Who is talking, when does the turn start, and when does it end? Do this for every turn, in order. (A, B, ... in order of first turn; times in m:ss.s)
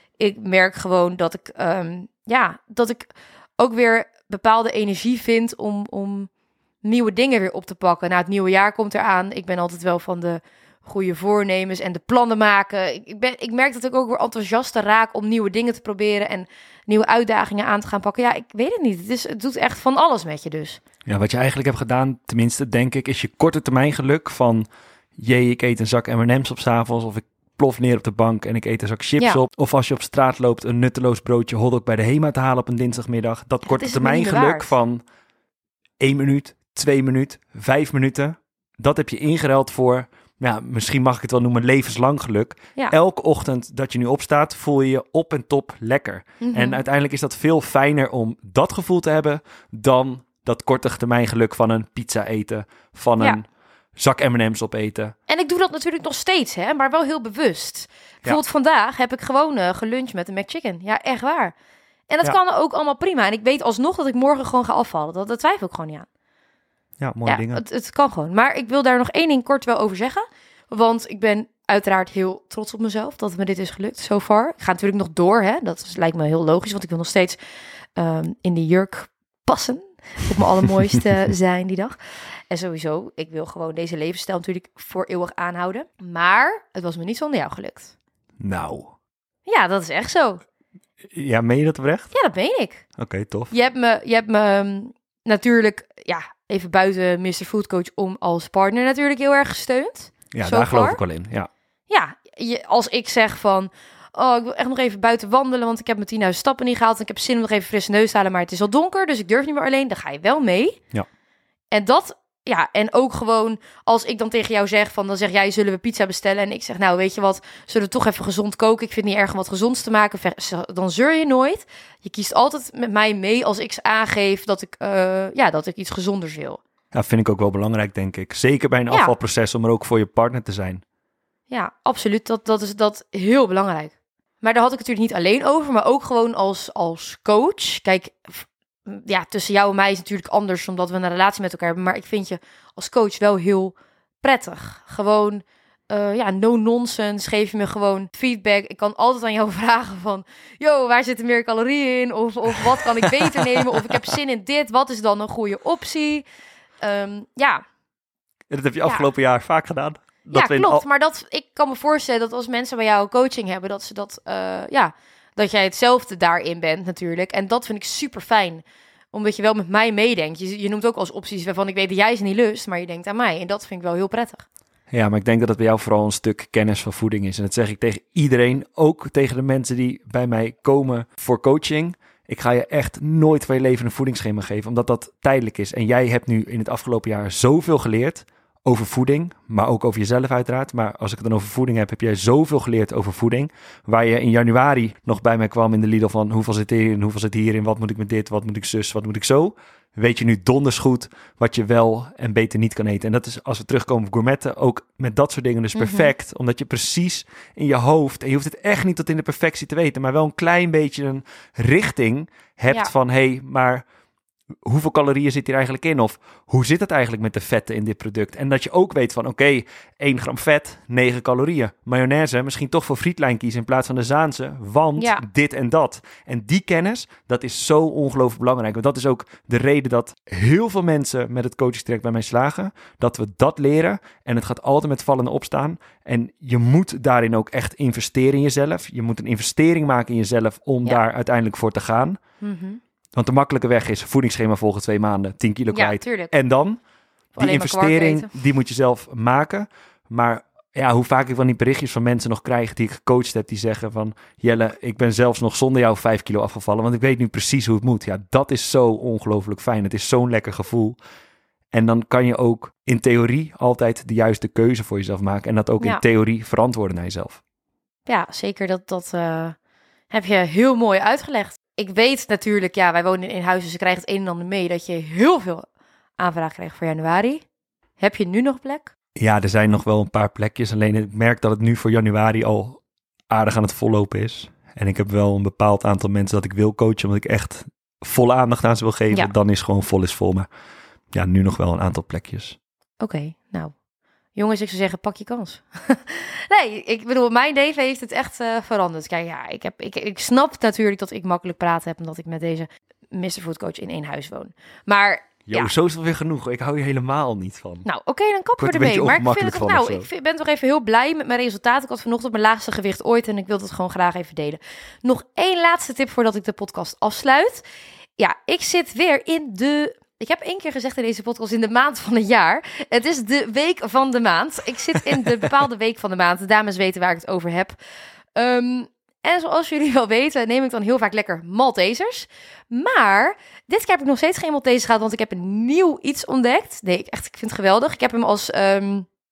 0:00.2-0:06.3 A
0:06.8-0:20.8 A
0:21.1-0:35.0 B
0:33.6-0:34.7 A
0:36.0-0:55.2 B
0:46.4-0:46.8 A
0:55.3-1:01.6 A
1:02.1-1:06.1 A
1:07.0-1:07.6 B
1:07.3-1:17.4 A
1:18.0-1:22.0 A
1:22.5-1:27.9 A
1:28.4-1:28.9 B
1:29.5-1:30.4 A
1:31.1-1:32.1 B
1:32.1-1:32.8 A
1:33.0-1:33.5 B
1:33.5-1:41.0 A
1:40.3-1:41.5 B
1:41.9-1:50.8 A
1:51.7-2:06.6 A
2:06.9-2:10.8 B
2:11.5-2:36.2 A
2:33.0-2:34.0 B
2:36.8-2:37.6 A
2:38.5-2:40.8 B
2:40.3-2:54.5 A
2:54.9-3:33.8 B
3:25.8-3:26.1 A
3:34.6-4:02.2 B
3:45.0-3:45.2 A
4:02.4-4:02.8 A
4:03.1-4:06.8 B
4:05.7-4:06.3 A
4:07.4-4:08.3 A
4:07.4-4:21.0 B
4:21.7-4:27.4 B
4:28.1-4:29.6 A
4:30.1-4:35.6 A
4:36.2-4:37.4 A
4:38.0-4:38.9 A
4:39.2-4:50.5 B
4:51.1-4:52.6 B
4:53.0-4:53.7 A
4:54.4-5:05.7 A
5:05.5-5:07.9 B
5:07.8-5:17.6 A
5:08.6-5:10.1 B
5:18.2-5:27.8 A
5:28.4-5:39.1 A